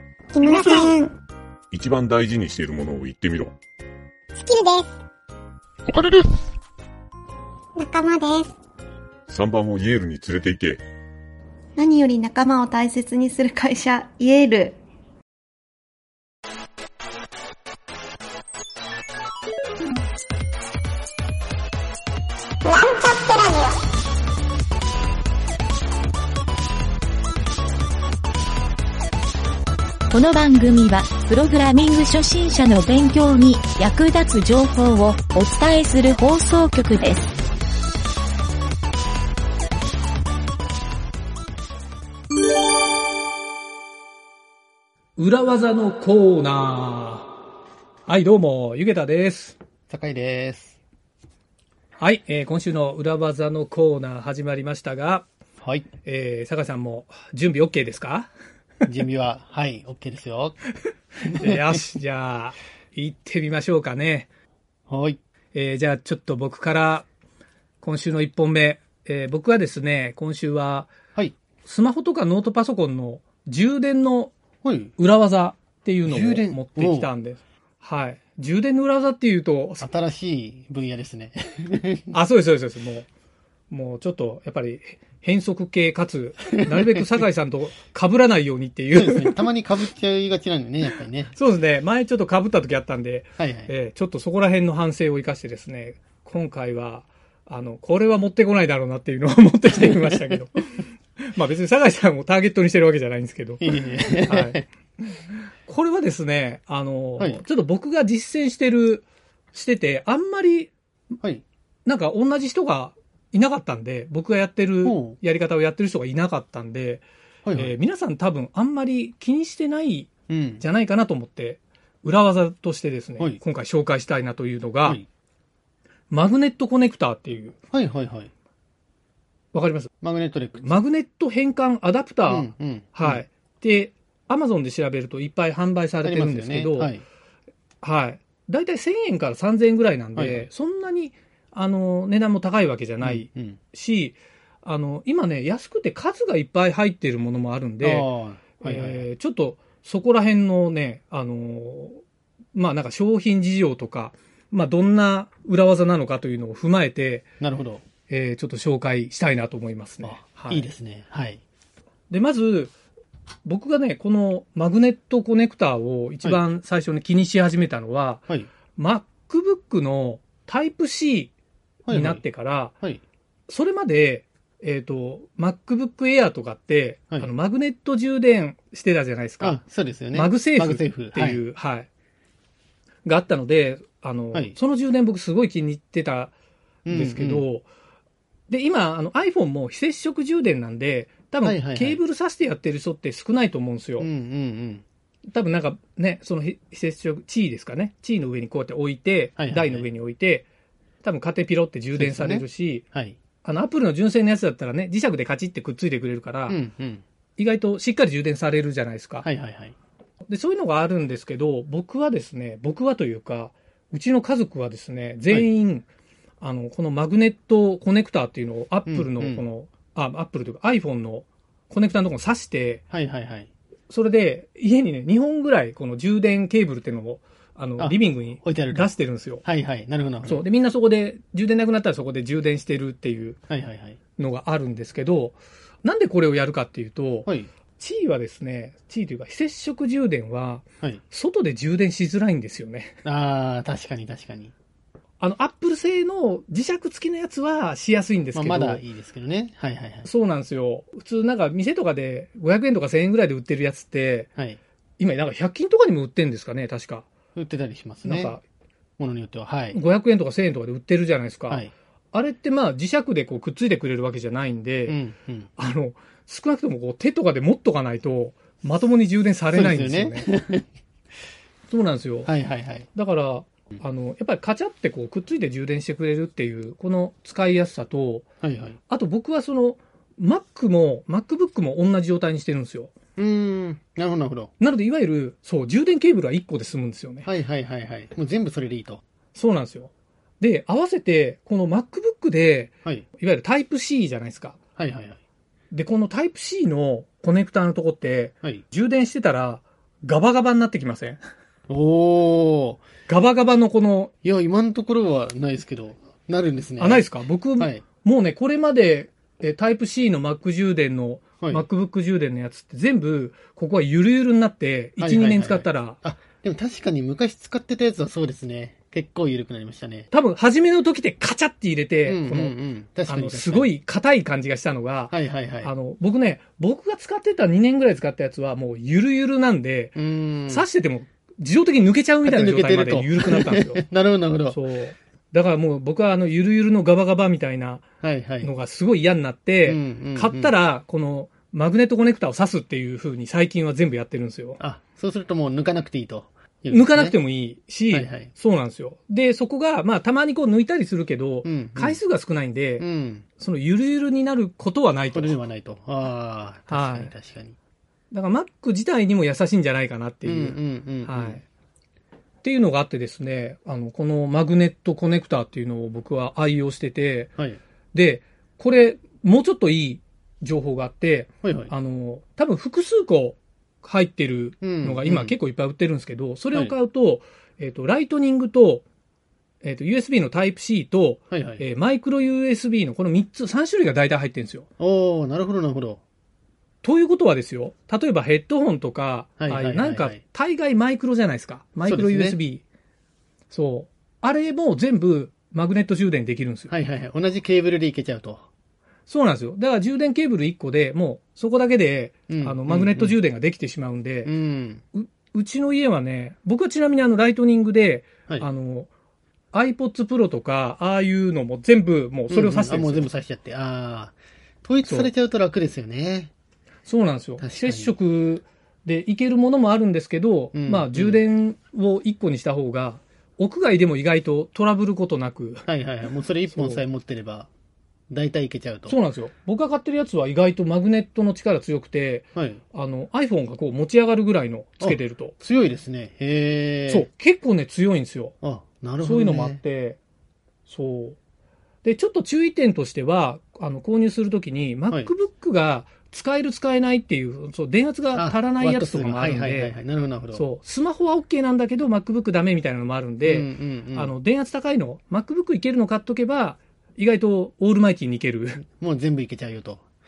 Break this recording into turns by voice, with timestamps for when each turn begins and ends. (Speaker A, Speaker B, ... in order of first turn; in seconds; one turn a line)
Speaker A: 0.3-1.1
Speaker B: 0.4-1.0
Speaker C: 1.7-3.5
Speaker A: 4.5-4.9
Speaker A: 7.8-8.5
Speaker C: 9.3-10.8
Speaker B: 11.8-14.8
Speaker A: 22.8-23.4
Speaker D: 30.1-37.3
Speaker E: 45.2-47.3
Speaker E: 48.1-49.6
Speaker F: 49.9-50.8
Speaker E: 52.0-55.3
Speaker F: 55.6-55.9
Speaker E: 56.0-58.3
Speaker F: 58.9-60.6
Speaker F: 61.2-61.8
Speaker E: 61.2-64.3
Speaker F: 64.9-65.2
Speaker E: 65.5-67.1
Speaker E: 67.8-70.9
Speaker E: 71.7-74.3
Speaker F: 74.6-75.0
Speaker E: 75.0-79.9
Speaker F: 76.0-77.1
Speaker F: 79.8-82.2
Speaker E: 82.1-83.1
Speaker E: 83.7-89.5
Speaker F: 86.5-87.2
Speaker F: 88.9-91.3
Speaker E: 91.3-110.7
Speaker F: 93.4-93.7
Speaker F: 99.7-100.4
Speaker F: 103.6-104.6
Speaker F: 107.2-107.4
Speaker E: 111.8-120.1
Speaker F: 114.8-115.2
Speaker F: 117.5-117.8
Speaker F: 120.3-120.6
Speaker E: 120.6-125.0
Speaker E: 126.1-127.6
Speaker F: 127.7-128.3
Speaker E: 129.5-129.9
Speaker F: 130.0-130.8
Speaker E: 130.6-136.9
Speaker F: 132.3-133.2
Speaker F: 136.0-137.0
Speaker E: 137.8-148.1
Speaker F: 140.2-140.5
Speaker F: 143.0-143.6
Speaker F: 147.8-149.1
Speaker E: 148.6-152.0
Speaker E: 152.5-157.3
Speaker F: 157.4-157.8
Speaker E: 158.1-160.7
Speaker F: 160.0-161.4
Speaker E: 162.1-162.7
Speaker E: 163.4-171.3
Speaker F: 171.9-173.0
Speaker E: 171.9-172.7
Speaker E: 173.5-179.6
Speaker F: 179.4-181.4
Speaker E: 180.1-181.9
Speaker E: 183.1-186.3
Speaker F: 186.8-187.5
Speaker E: 186.9-187.7
Speaker E: 188.5-194.1
Speaker F: 191.4-192.0
Speaker F: 194.0-194.8
Speaker E: 195.3-200.5
Speaker F: 199.4-199.9
Speaker E: 201.0-202.8
Speaker F: 201.9-203.2
Speaker E: 203.4-206.6
Speaker F: 206.5-207.0
Speaker E: 207.4-209.3
Speaker F: 209.2-209.8
Speaker E: 210.3-215.9
Speaker E: 216.4-222.8
Speaker F: 218.9-219.4
Speaker F: 222.9-223.5
Speaker E: 223.9-229.4
Speaker F: 227.8-230.4
Speaker E: 230.2-233.4
Speaker F: 233.5-234.0
Speaker E: 234.2-243.0
Speaker F: 243.0-244.5
Speaker E: 245.2-248.8
Speaker F: 248.3-250.1
Speaker E: 250.1-254.3
Speaker E: 255.0-257.1
Speaker F: 257.4-258.4
Speaker E: 258.0-258.4
Speaker F: 259.0-259.8
Speaker E: 259.7-265.0
Speaker F: 264.9-265.5
Speaker E: 265.6-270.3
Speaker F: 269.5-270.7
Speaker E: 271.7-272.3
Speaker F: 272.2-272.9
Speaker E: 272.9-278.3
Speaker F: 278.4-278.8
Speaker E: 278.9-282.9
Speaker F: 283.2-284.5
Speaker E: 284.6-287.3
Speaker F: 287.2-289.0
Speaker E: 289.4-294.6
Speaker F: 294.8-295.2
Speaker E: 295.7-301.2
Speaker F: 301.7-302.9
Speaker E: 303.1-304.1
Speaker F: 304.2-307.8
Speaker E: 306.8-316.0
Speaker F: 315.0-320.1
Speaker E: 320.1-322.6
Speaker F: 322.1-323.7
Speaker E: 323.1-333.8
Speaker F: 325.1-325.7
Speaker F: 329.9-330.7
Speaker F: 332.2-334.6
Speaker E: 334.5-337.8
Speaker F: 338.0-338.5
Speaker E: 338.4-344.6
Speaker F: 339.7-340.6
Speaker F: 344.6-347.2
Speaker E: 346.7-352.9
Speaker F: 347.9-348.3
Speaker F: 351.4-352.0
Speaker F: 352.8-353.2
Speaker E: 353.4-355.4
Speaker F: 355.1-357.6
Speaker E: 356.7-357.1
Speaker E: 358.1-361.4
Speaker F: 360.2-361.4
Speaker E: 362.4-367.4
Speaker E: 367.9-378.9
Speaker F: 371.4-371.7
Speaker F: 374.6-375.4
Speaker E: 379.6-384.7
Speaker F: 381.3-381.6
Speaker F: 384.8-386.0
Speaker E: 386.8-392.6
Speaker F: 389.4-390.2
Speaker F: 391.9-392.4
Speaker E: 393.5-396.7
Speaker F: 396.7-398.5
Speaker E: 399.1-404.3
Speaker F: 402.3-403.2
Speaker F: 404.2-404.8
Speaker E: 404.9-408.9
Speaker E: 409.5-413.1
Speaker F: 412.3-416.3
Speaker E: 416.9-425.6
Speaker F: 417.4-417.9
Speaker F: 420.5-421.2
Speaker F: 425.7-427.5
Speaker E: 426.5-426.8
Speaker F: 428.1-429.0
Speaker E: 428.9-435.4
Speaker F: 432.4-432.6
Speaker F: 434.8-437.1
Speaker E: 436.9-438.4
Speaker F: 438.4-439.6
Speaker E: 439.0-440.0
Speaker E: 440.7-441.2
Speaker E: 441.8-449.8
Speaker F: 448.1-450.4
Speaker E: 450.3-458.6
Speaker F: 453.2-454.1
Speaker F: 458.8-459.8